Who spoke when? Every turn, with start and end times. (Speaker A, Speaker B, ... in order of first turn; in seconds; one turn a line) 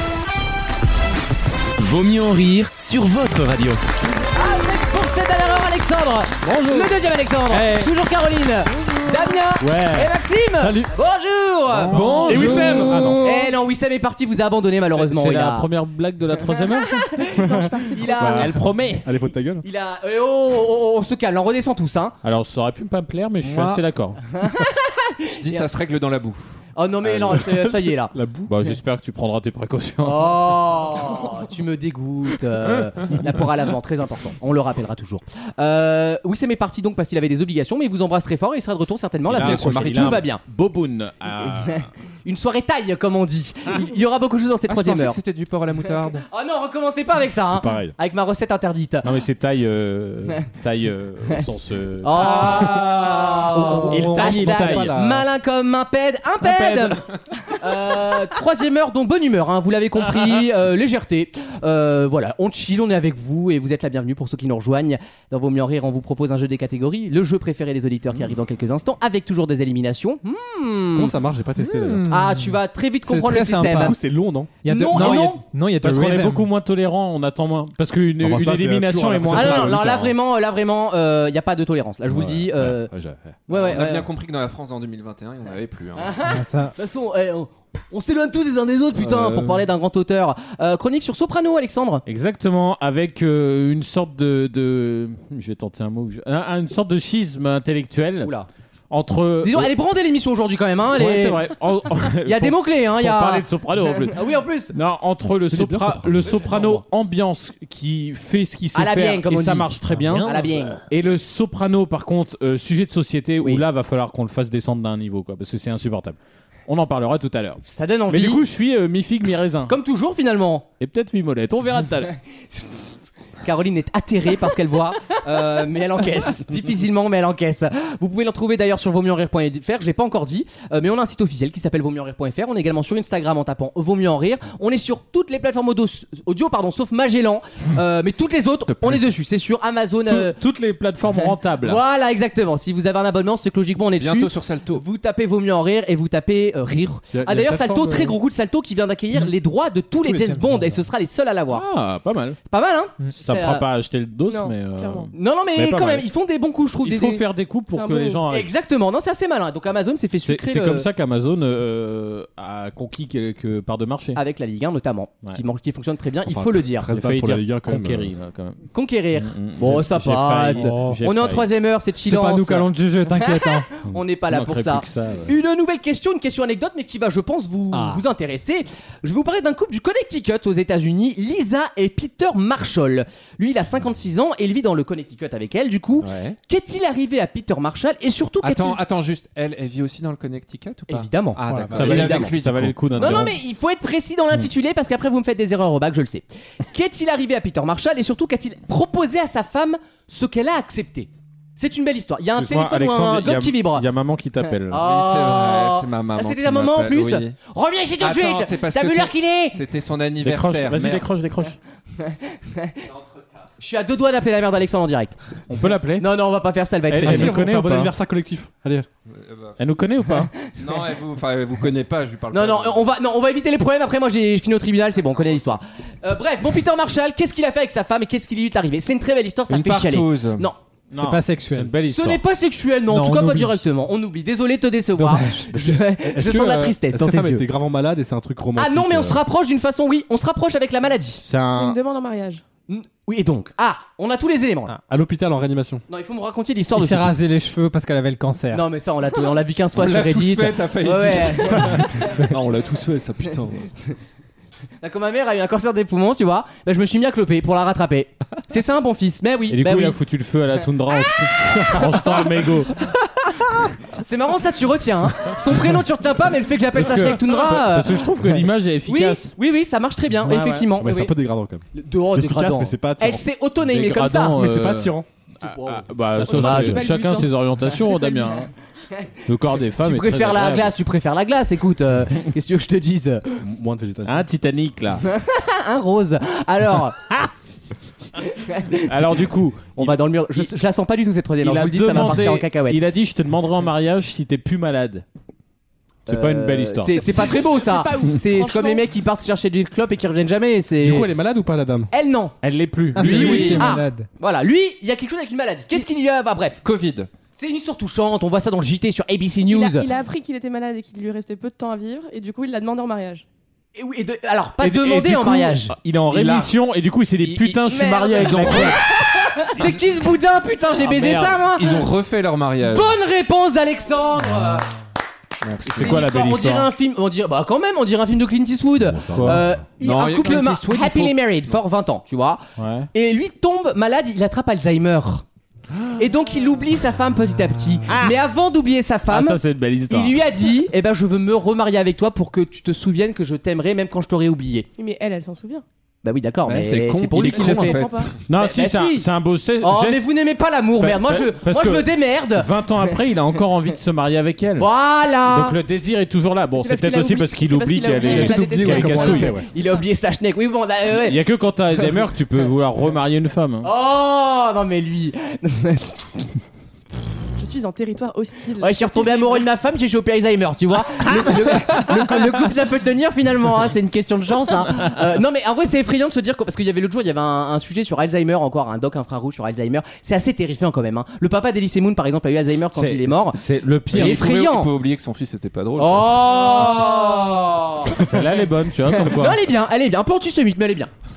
Speaker A: 1.8-3.8
Speaker B: 4.3-15.7
Speaker C: 6.4-6.9
Speaker C: 7.5-7.9
Speaker C: 9.6-10.1
Speaker D: 10.6-10.9
Speaker C: 11.7-13.3
Speaker E: 12.0-12.5
Speaker D: 12.0-13.1
Speaker F: 12.1-13.2
Speaker C: 14.9-17.1
Speaker B: 16.6-18.6
Speaker G: 17.3-18.3
Speaker F: 17.4-19.7
Speaker C: 18.2-19.1
Speaker B: 19.6-22.1
Speaker C: 22.2-24.2
Speaker E: 23.4-23.8
Speaker B: 24.3-25.7
Speaker E: 25.3-26.5
Speaker B: 26.8-28.1
Speaker E: 27.1-27.4
Speaker F: 27.3-28.6
Speaker C: 28.5-30.9
Speaker B: 30.0-40.4
Speaker C: 39.3-41.9
Speaker F: 39.3-40.1
Speaker B: 41.7-45.2
Speaker E: 44.7-46.2
Speaker B: 46.2-49.1
Speaker F: 47.5-48.0
Speaker C: 49.0-52.7
Speaker B: 52.0-71.2
Speaker F: 52.6-55.3
Speaker C: 53.8-55.0
Speaker C: 56.4-57.0
Speaker F: 70.9-72.1
Speaker D: 71.6-74.0
Speaker B: 72.1-74.0
Speaker F: 73.7-75.0
Speaker D: 74.6-76.5
Speaker B: 74.7-75.4
Speaker C: 75.8-80.1
Speaker F: 78.2-80.1
Speaker B: 79.3-82.9
Speaker F: 82.1-83.4
Speaker B: 83.5-84.1
Speaker E: 83.5-86.2
Speaker B: 86.0-92.0
Speaker D: 86.2-86.7
Speaker F: 89.0-89.7
Speaker C: 92.1-98.3
Speaker B: 98.2-98.5
Speaker C: 98.9-99.7
Speaker B: 99.4-101.4
Speaker C: 100.9-119.8
Speaker B: 102.3-103.5
Speaker B: 104.0-104.8
Speaker F: 105.5-106.5
Speaker B: 106.5-106.8
Speaker B: 108.7-110.8
Speaker D: 110.1-110.7
Speaker B: 117.6-118.5
Speaker B: 119.7-120.7
Speaker C: 120.8-122.2
Speaker B: 123.4-140.4
Speaker C: 140.1-141.8
Speaker B: 141.6-151.7
Speaker E: 144.0-144.8
Speaker F: 147.1-148.1
Speaker D: 150.0-150.8
Speaker C: 151.5-152.4
Speaker B: 152.5-153.7
Speaker C: 153.2-155.9
Speaker G: 154.3-155.1
Speaker B: 155.1-157.2
Speaker F: 155.6-156.1
Speaker C: 156.8-158.5
Speaker G: 157.7-158.2
Speaker B: 158.3-160.9
Speaker C: 160.2-164.2
Speaker B: 164.2-166.9
Speaker F: 166.3-168.1
Speaker C: 166.9-168.6
Speaker B: 168.7-188.8
Speaker C: 169.2-171.5
Speaker D: 170.5-171.0
Speaker D: 172.0-173.7
Speaker C: 173.9-175.3
Speaker D: 177.7-178.0
Speaker E: 186.0-186.4
Speaker E: 188.4-193.2
Speaker B: 190.9-192.3
Speaker D: 191.5-191.8
Speaker C: 191.7-193.4
Speaker B: 193.0-203.9
Speaker C: 202.3-204.8
Speaker B: 204.6-209.6
Speaker E: 204.8-207.3
Speaker E: 208.0-211.1
Speaker C: 210.2-211.6
Speaker B: 212.1-212.8
Speaker E: 212.9-213.5
Speaker B: 213.6-215.2
Speaker C: 215.5-216.1
Speaker B: 216.0-217.4
Speaker C: 216.9-217.9
Speaker F: 217.0-218.9
Speaker E: 219.1-219.6
Speaker C: 219.6-220.3
Speaker E: 220.6-222.9
Speaker B: 222.3-230.6
Speaker E: 229.5-230.5
Speaker C: 230.9-232.2
Speaker D: 230.9-231.8
Speaker B: 231.8-237.4
Speaker D: 232.9-233.7
Speaker D: 235.0-235.5
Speaker F: 235.6-239.2
Speaker B: 238.6-241.2
Speaker C: 241.2-241.8
Speaker G: 241.5-242.4
Speaker B: 242.7-244.7
Speaker F: 244.9-245.8
Speaker B: 245.9-247.1
Speaker D: 246.7-248.7
Speaker B: 248.5-251.9
Speaker E: 249.8-253.8
Speaker B: 254.8-260.0
Speaker C: 259.5-262.8
Speaker B: 261.6-262.3
Speaker B: 263.9-271.1
Speaker C: 266.7-269.4
Speaker C: 270.2-270.7
Speaker F: 270.8-273.3
Speaker B: 271.7-274.4
Speaker C: 273.7-278.5
Speaker F: 274.4-275.1
Speaker B: 275.4-276.9
Speaker G: 276.2-278.5
Speaker C: 279.3-280.7
Speaker B: 279.8-283.3
Speaker F: 283.4-284.3
Speaker C: 284.1-285.1
Speaker B: 285.1-287.2
Speaker B: 288.3-289.0
Speaker C: 288.7-290.5
Speaker B: 289.8-292.8
Speaker C: 291.4-295.0
Speaker C: 296.1-297.3
Speaker B: 296.1-301.1
Speaker G: 296.9-298.8
Speaker F: 300.8-301.9
Speaker B: 301.9-302.4
Speaker C: 302.4-303.7
Speaker D: 302.9-304.1
Speaker E: 303.0-303.8
Speaker B: 303.0-306.6
Speaker E: 306.6-307.1
Speaker B: 307.4-309.9
Speaker G: 309.5-313.2
Speaker B: 313.8-315.8
Speaker C: 314.6-318.8
Speaker E: 316.1-316.5
Speaker E: 317.2-318.8
Speaker G: 317.7-319.4
Speaker B: 318.4-321.8
Speaker C: 320.8-321.5
Speaker E: 321.5-323.0
Speaker B: 322.6-324.7
Speaker E: 325.4-326.2
Speaker C: 325.6-326.7
Speaker B: 325.8-332.4
Speaker F: 328.8-329.6
Speaker C: 329.1-329.4
Speaker E: 329.8-331.6
Speaker C: 332.6-332.9
Speaker B: 332.9-335.2
Speaker B: 335.9-344.7
Speaker C: 337.9-338.2
Speaker C: 339.1-340.2
Speaker G: 344.8-345.6
Speaker B: 346.0-349.1
Speaker E: 346.4-348.1
Speaker G: 347.2-348.1
Speaker C: 348.3-350.1
Speaker B: 349.6-352.9
Speaker C: 350.8-354.7
Speaker B: 354.6-355.6
Speaker C: 355.3-359.4
Speaker G: 356.6-359.4
Speaker F: 358.0-359.5
Speaker B: 358.7-361.2
Speaker C: 361.0-363.7
Speaker B: 363.6-366.1
Speaker G: 367.4-369.4
Speaker B: 368.6-384.7
Speaker C: 382.7-384.2
Speaker E: 383.9-386.9
Speaker B: 385.8-388.0
Speaker C: 387.9-389.4
Speaker B: 388.9-390.9